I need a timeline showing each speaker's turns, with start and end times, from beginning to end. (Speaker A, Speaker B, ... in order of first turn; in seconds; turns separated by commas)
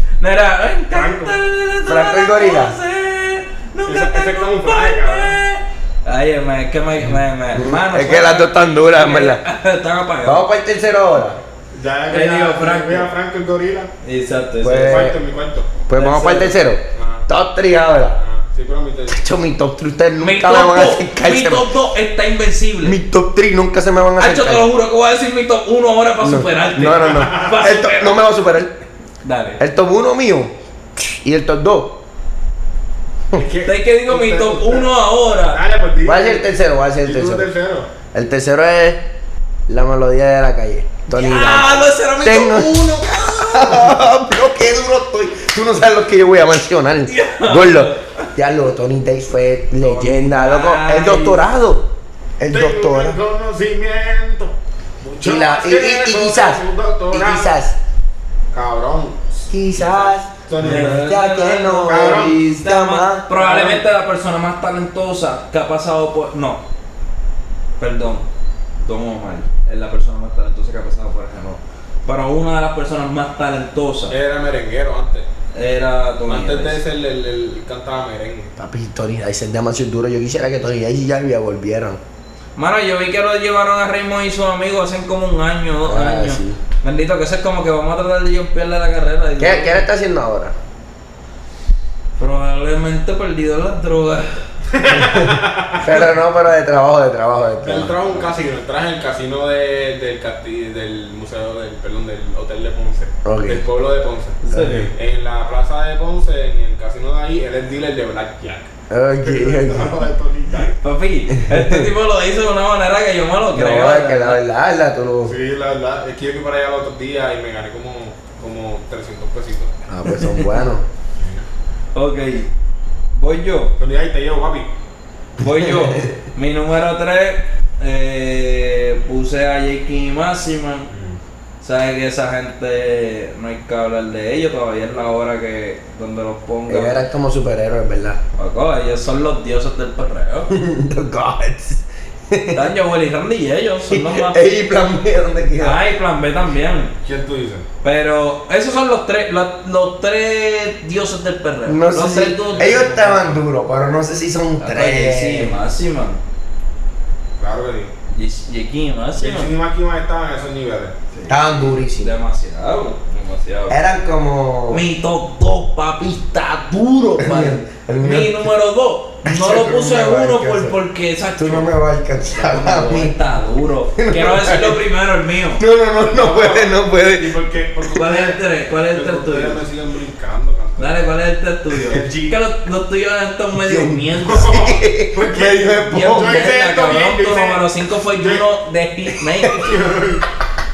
Speaker A: 0.2-10.4, Speaker B: 0.9-1.4, Speaker C: 1.9-2.7, Speaker B: 3.9-5.4, Speaker C: 7.0-9.4, Speaker C: 10.2-11.4, Speaker B: 11.7-13.9, Speaker A: 12.1-13.1, Speaker A: 14.0-15.1, Speaker C: 14.6-15.2, Speaker B: 14.8-15.7, Speaker C: 15.9-18.2, Speaker A: 15.9-16.5, Speaker B: 16.9-17.3, Speaker B: 18.2-19.2, Speaker C: 19.1-21.7, Speaker A: 20.2-23.0, Speaker C: 22.8-24.6, Speaker A: 24.2-28.2, Speaker C: 26.2-28.7, Speaker B: 26.9-27.6, Speaker A: 29.2-29.6, Speaker C: 29.6-32.0, Speaker B: 33.3-34.9, Speaker A: 33.6-35.6, Speaker B: 35.5-36.4, Speaker C: 36.0-37.5, Speaker B: 37.0-37.9, Speaker C: 38.1-39.0, Speaker C: 39.7-51.9, Speaker A: 41.1-44.0, Speaker A: 47.0-48.3, Speaker A: 49.8-51.4, Speaker C: 52.4-53.2, Speaker B: 52.5-57.5, Speaker C: 55.2-57.8, Speaker B: 58.5-61.0, Speaker C: 59.5-63.8, Speaker A: 60.6-66.6, Speaker B: 61.9-62.4, Speaker A: 67.8-68.2, Speaker A: 68.8-74.1, Speaker B: 74.1-75.3, Speaker A: 75.5-76.8, Speaker B: 76.3-78.5, Speaker C: 78.6-82.0, Speaker A: 82.6-89.8, Speaker C: 85.8-86.6, Speaker C: 89.4-90.5, Speaker A: 92.2-94.4, Speaker B: 94.7-95.9, Speaker C: 95.8-98.0, Speaker B: 97.6-110.8, Speaker C: 103.2-103.6, Speaker A: 104.5-104.9, Speaker C: 104.5-104.9, Speaker C: 108.9-110.0, Speaker A: 110.8-114.4, Speaker C: 111.3-111.9, Speaker C: 113.5-115.3, Speaker B: 115.2-119.7, Speaker C: 119.9-120.8, Speaker A: 120.1-120.5, Speaker B: 121.2-121.4, Speaker A: 121.9-122.5, Speaker A: 123.1-123.7, Speaker B: 123.8-124.7, Speaker A: 125.4-130.9, Speaker C: 125.5-126.1, Speaker B: 130.9-131.2, Speaker A: 131.6-137.0, Speaker C: 136.7-138.2, Speaker A: 138.4-140.5, Speaker C: 140.5-142.7, Speaker A: 142.5-144.4, Speaker C: 143.9-145.8, Speaker A: 145.6-146.9, Speaker B: 147.0-147.7, Speaker A: 147.8-153.4, Speaker C: 151.7-155.6, Speaker A: 154.6-156.2, Speaker B: 157.4-157.9, Speaker A: 158.1-159.5, Speaker B: 159.2-161.2, Speaker C: 161.3-162.1, Speaker A: 162.0-163.8, Speaker C: 163.7-164.8, Speaker A: 164.7-171.7, Speaker C: 167.2-168.4, Speaker C: 169.2-170.8, Speaker C: 171.4-173.2, Speaker A: 172.3-175.6, Speaker C: 173.9-174.8, Speaker C: 175.6-177.3, Speaker B: 176.0-178.4, Speaker A: 177.9-179.6, Speaker B: 178.9-181.1, Speaker A: 180.8-184.6, Speaker B: 181.8-182.4, Speaker C: 183.6-186.5, Speaker B: 184.2-188.4, Speaker A: 185.9-189.8, Speaker B: 189.5-190.2